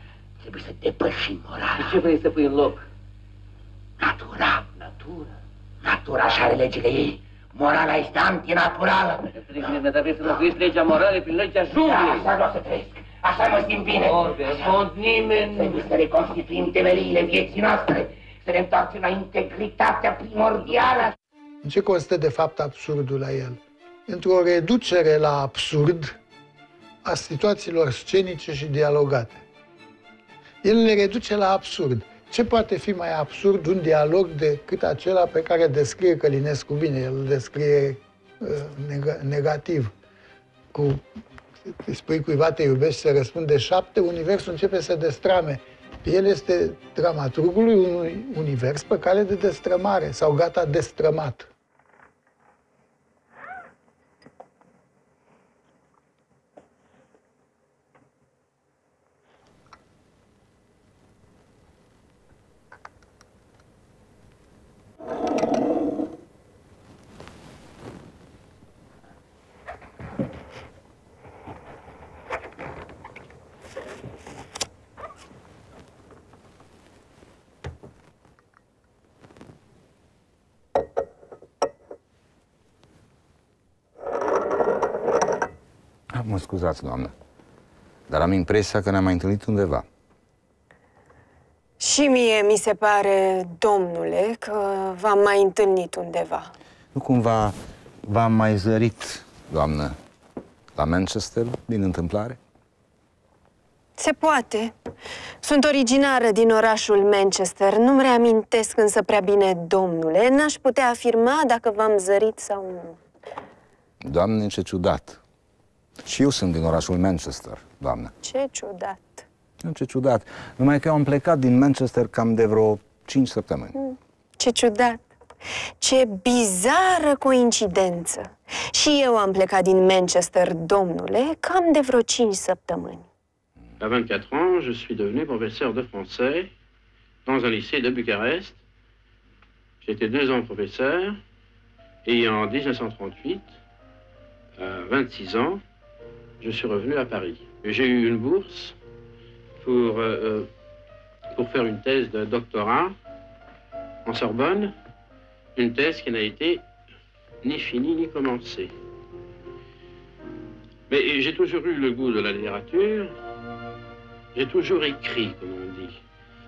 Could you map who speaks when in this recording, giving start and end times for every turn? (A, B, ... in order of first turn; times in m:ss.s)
0:00.4-0:02.0 A
0:01.8-0:02.8 B
0:04.0-0:05.3 A
0:05.8-0:09.8 A
0:09.4-0:12.2 B
0:11.8-0:21.1 A
0:14.0-0:15.8 B
0:21.6-0:26.2 C
0:27.0-0:29.4 C
0:30.6-0:39.9 C
0:40.7-0:41.0 C
0:41.7-0:51.5 C
1:26.1-1:27.1 D
1:28.1-1:29.8 D
1:31.8-1:36.5 E
1:36.9-1:40.0 D
1:40.8-1:42.4 D
1:44.0-1:44.8 E
1:45.4-1:53.0 E
1:54.0-1:55.2 D
1:56.0-1:58.1 D
1:58.2-1:59.2 E
1:59.6-2:03.8 D
2:03.8-2:05.1 E
2:05.8-2:13.1 E
2:13.8-2:16.5 F
2:17.3-2:18.6 F
2:19.8-2:21.2 F
2:22.0-2:23.5 F
2:24.6-2:25.6 F
2:26.4-2:28.8 F
2:29.6-2:30.5 F
2:31.3-2:33.0 F
2:34.0-2:34.7 F
2:35.6-2:36.6 F
2:37.4-2:38.7 F
2:40.9-2:43.1 F
2:44.4-2:46.0 F